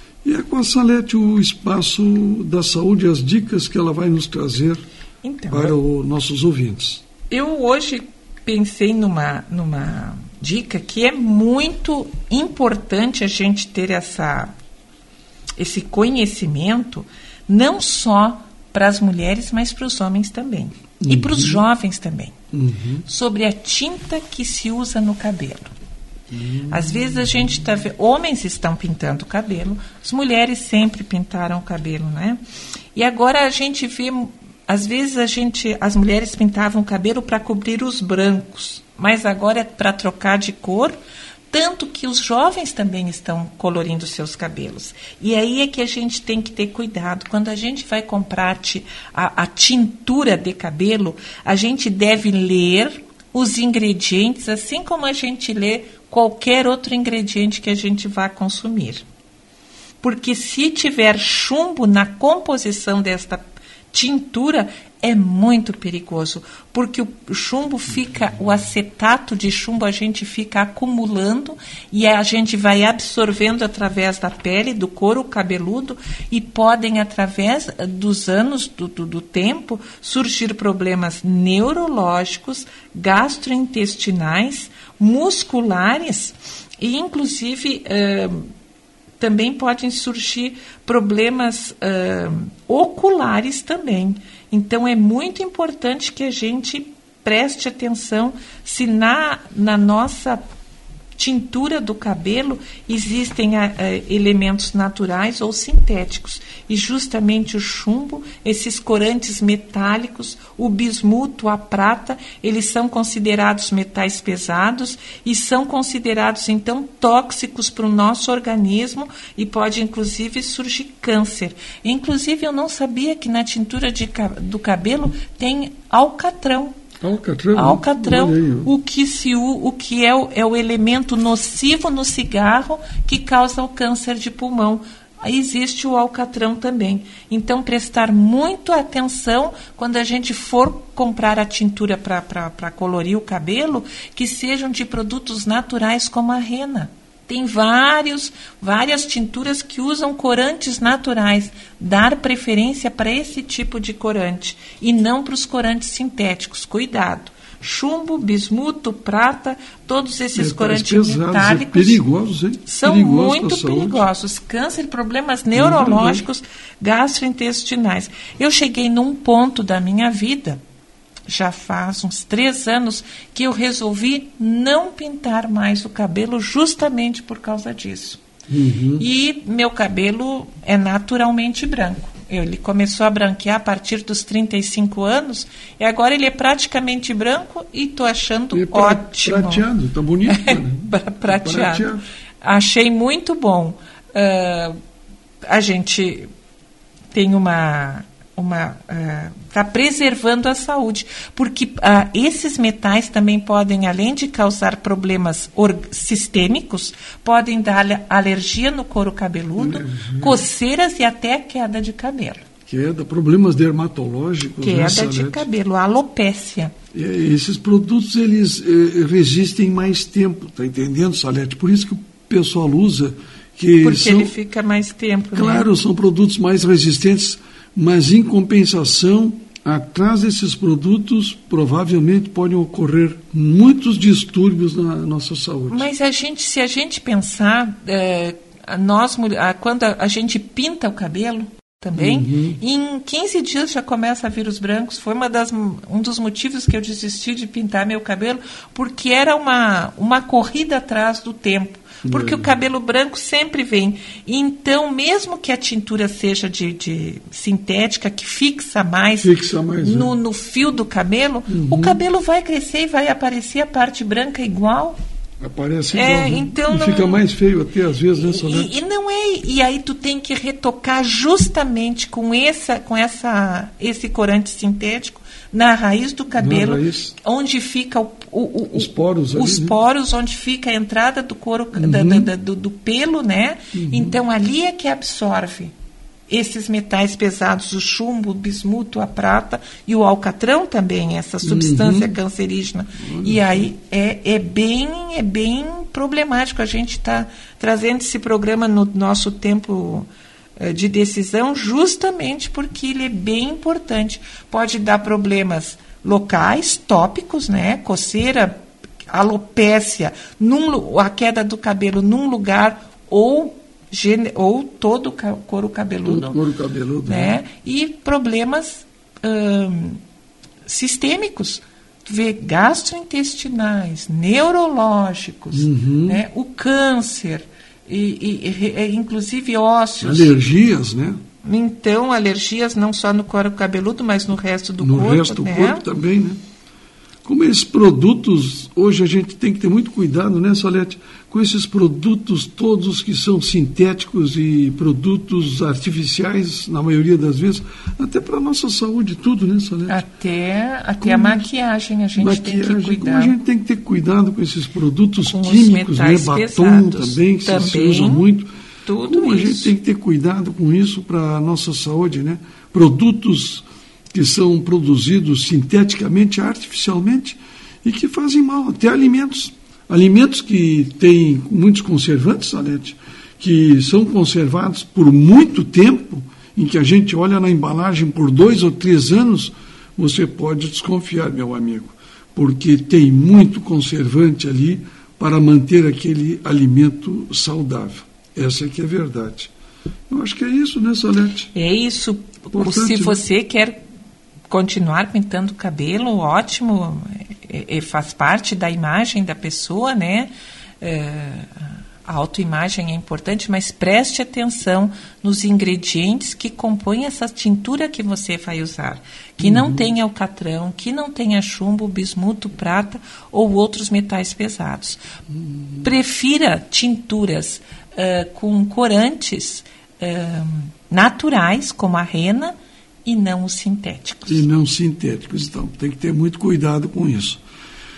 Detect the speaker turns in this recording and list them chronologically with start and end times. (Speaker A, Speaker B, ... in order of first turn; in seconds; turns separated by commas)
Speaker A: 0.2-4.8, Speaker B: 5.2-5.8, Speaker A: 5.5-7.0, Speaker B: 7.3-14.5, Speaker B: 15.6-22.3, Speaker A: 21.0-21.6, Speaker A: 22.5-23.1, Speaker B: 23.1-25.7, Speaker A: 26.3-27.3, Speaker B: 26.6-32.4, Speaker B: 32.9-41.0, Speaker B: 41.5-59.0, Speaker B: 60.0-88.5, Speaker B: 89.2-100.4, Speaker B: 101.2-126.8, Speaker A: 127.0-128.7, Speaker B: 127.5-162.0, Speaker A: 160.3-164.0, Speaker B: 162.7-170.6, Speaker A: 165.5-166.2, Speaker B: 171.3-178.2, Speaker A: 178.5-179.1, Speaker B: 179.0-189.7, Speaker A: 188.5-192.0, Speaker B: 190.2-191.9, Speaker B: 192.4-194.7, Speaker B: 195.4-196.3, Speaker B: 197.1-212.4, Speaker A: 209.6-210.4, Speaker A: 212.7-215.5, Speaker B: 214.6-216.7, Speaker A: 216.9-224.3, Speaker B: 223.8-225.7, Speaker A: 225.3-235.9, Speaker B: 235.7-265.0, Speaker A: 241.9-242.6, Speaker A: 252.0-252.5, Speaker A: 259.2-260.1, Speaker A: 261.5-262.0, Speaker A: 265.4-268.7, Speaker B: 265.9-267.2, Speaker B: 268.1-285.7, Speaker A: 276.3-277.1, Speaker A: 278.7-279.8, Speaker A: 281.7-282.3, Speaker A: 283.7-284.2, Speaker B: 286.3-316.4, Speaker A: 291.4-292.1, Speaker A: 293.0-293.7, Speaker A: 316.0-317.4, Speaker B: 317.0-320.0, Speaker B: 320.6-330.4, Speaker A: 325.5-326.2, Speaker A: 330.0-331.2, Speaker B: 331.4-335.8, Speaker A: 334.8-336.4, Speaker A: 337.2-350.0, Speaker B: 349.9-353.4, Speaker A: 351.0-351.5, Speaker A: 352.2-358.5, Speaker B: 355.2-358.3, Speaker B: 358.9-359.7, Speaker A: 359.0-389.5, Speaker A: 390.1-391.5, Speaker B: 391.5-393.8, Speaker A: 392.5-393.2, Speaker B: 394.5-415.0, Speaker A: 409.4-409.8, Speaker B: 415.8-422.5, Speaker B: 423.0-424.4, Speaker A: 424.3-427.4